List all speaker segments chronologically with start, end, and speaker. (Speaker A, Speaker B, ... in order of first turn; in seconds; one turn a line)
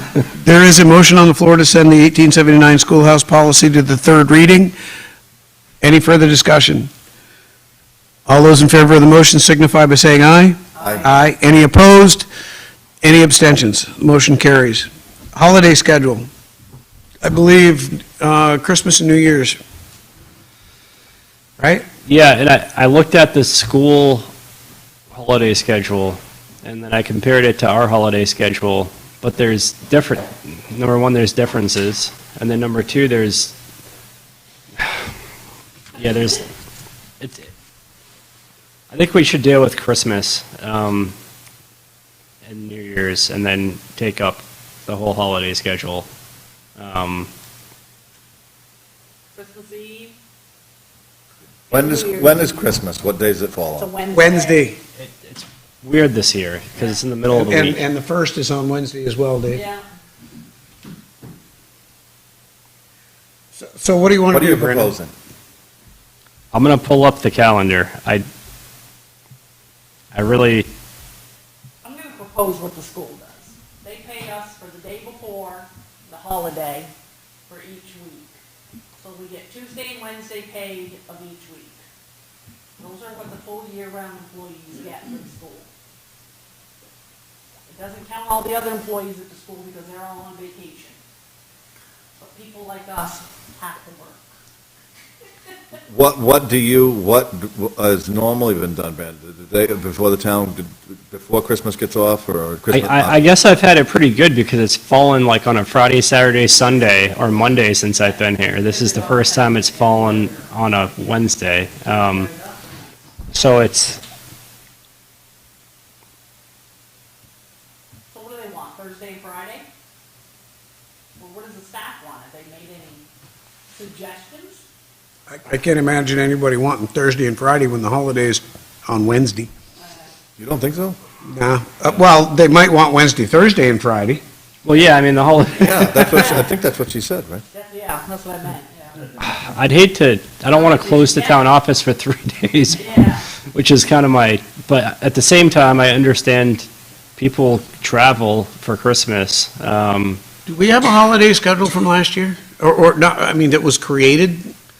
Speaker A: 0.2-4.8
Speaker A: 5.8-6.9
Speaker A: 8.2-12.3
Speaker B: 10.8-11.1
Speaker A: 13.0-16.3
Speaker A: 17.2-19.6
Speaker A: 21.6-21.8
Speaker C: 22.1-24.3
Speaker C: 25.1-33.5
Speaker C: 36.0-36.5
Speaker C: 37.2-37.5
Speaker C: 38.9-41.1
Speaker C: 42.4-46.1
Speaker C: 46.8-47.3
Speaker D: 49.3-50.2
Speaker D: 51.7-52.6
Speaker B: 51.7-53.9
Speaker D: 53.7-54.7
Speaker A: 54.1-54.8
Speaker C: 55.0-57.8
Speaker A: 57.3-59.6
Speaker D: 59.5-59.9
Speaker A: 63.5-64.9
Speaker B: 64.3-65.1
Speaker C: 66.5-68.3
Speaker C: 70.1-70.7
Speaker D: 71.8-76.9
Speaker D: 77.5-78.4
Speaker D: 79.0-81.8
Speaker D: 82.8-85.7
Speaker D: 87.7-91.0
Speaker D: 92.2-94.3
Speaker B: 95.9-103.2
Speaker C: 102.7-112.3
Speaker D: 108.6-110.5
Speaker D: 111.9-113.0
Speaker C: 113.3-114.0
Speaker D: 118.1-119.7
Speaker D: 121.2-123.0
Speaker D: 123.7-124.7
Speaker A: 125.3-129.5
Speaker D: 129.8-130.1
Speaker B: 130.4-131.0
Speaker A: 131.2-134.2
Speaker C: 134.6-136.2
Speaker B: 135.6-137.4
Speaker D: 136.0-136.5
Speaker D: 137.5-139.1
Speaker C: 139.2-142.9
Speaker D: 140.5-141.4
Speaker D: 142.7-143.2
Speaker C: 143.5-150.2
Speaker A: 150.4-154.5